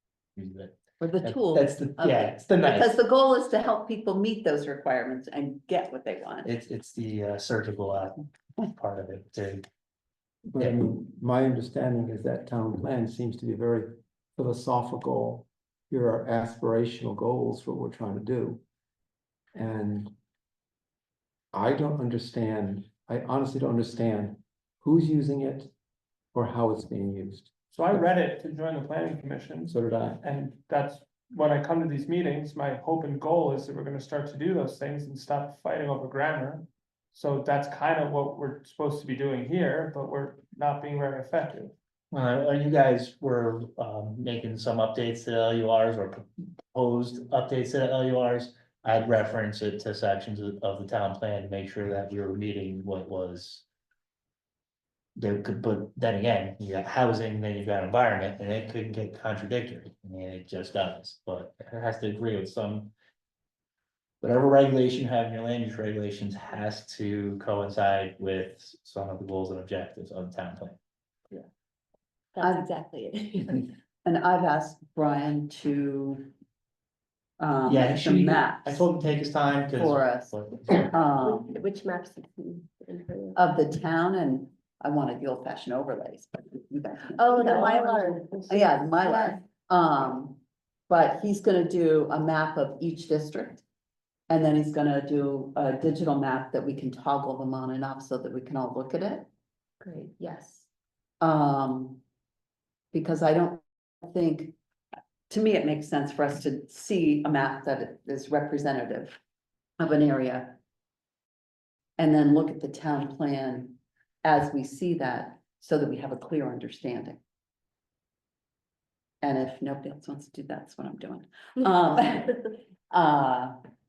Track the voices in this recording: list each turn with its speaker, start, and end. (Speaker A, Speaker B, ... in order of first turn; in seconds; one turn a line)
Speaker A: 0.4-3.0
Speaker B: 1.0-6.5
Speaker A: 6.5-9.7
Speaker C: 10.4-18.6
Speaker C: 19.6-20.1
Speaker C: 21.5-25.7
Speaker C: 26.3-28.0
Speaker D: 27.7-41.7
Speaker C: 29.7-30.2
Speaker A: 42.1-53.6
Speaker A: 55.2-62.9
Speaker A: 64.2-70.8
Speaker E: 72.3-73.7
Speaker B: 72.4-72.7
Speaker B: 74.0-76.3
Speaker B: 77.4-78.9
Speaker A: 77.7-80.9
Speaker B: 79.8-80.3
Speaker B: 80.9-81.5
Speaker E: 81.2-83.4
Speaker B: 83.3-93.6
Speaker E: 87.1-89.4
Speaker B: 94.3-99.3
Speaker E: 99.8-100.7
Speaker B: 101.2-102.0
Speaker B: 102.9-104.5
Speaker B: 105.3-109.2
Speaker B: 109.8-110.6
Speaker B: 112.0-117.2
Speaker B: 119.2-123.6